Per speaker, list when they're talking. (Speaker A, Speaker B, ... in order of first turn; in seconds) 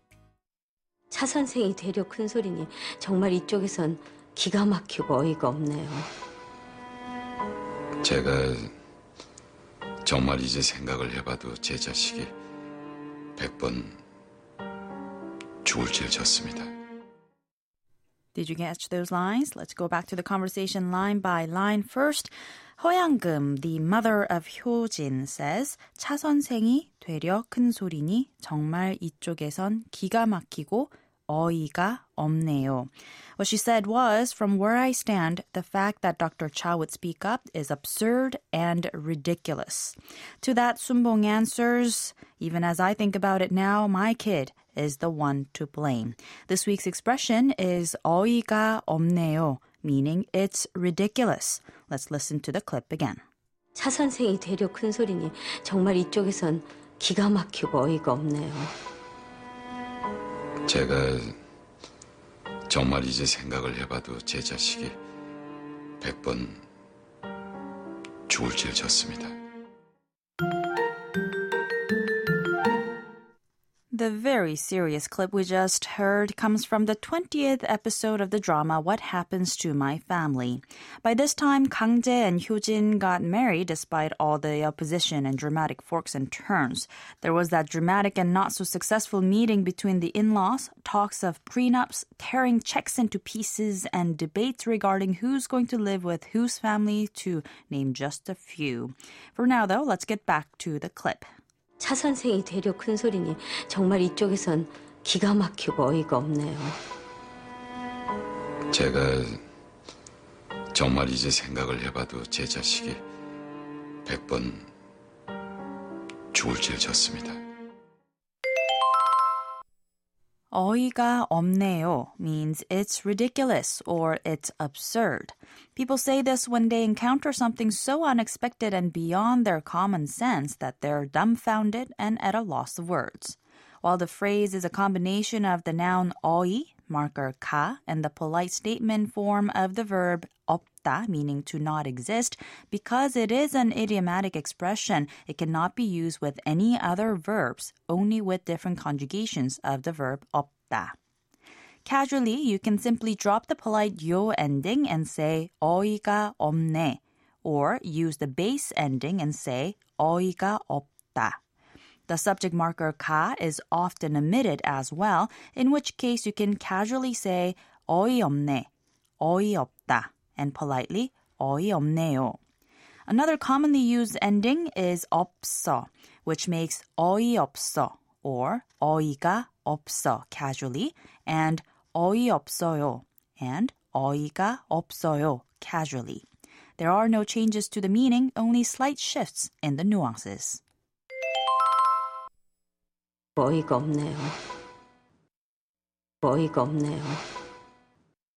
Speaker A: 1.1-6.1, 53.8-58.7, 101.8-106.8, 193.4-194.4, 196.2-197.2
Speaker B: 8.0-8.7, 10.0-12.3, 13.4-14.0, 15.6-16.7, 60.7-61.4, 62.7-65.0, 66.0-66.6, 68.3-69.4, 108.7-109.4, 110.7-113.0, 114.0-114.7, 116.3-117.4
Speaker C: 18.3-53.2, 73.9-101.3, 120.5-150.9, 151.8-161.4, 162.1-168.7, 169.2-172.4, 173.1-186.2, 186.8-190.6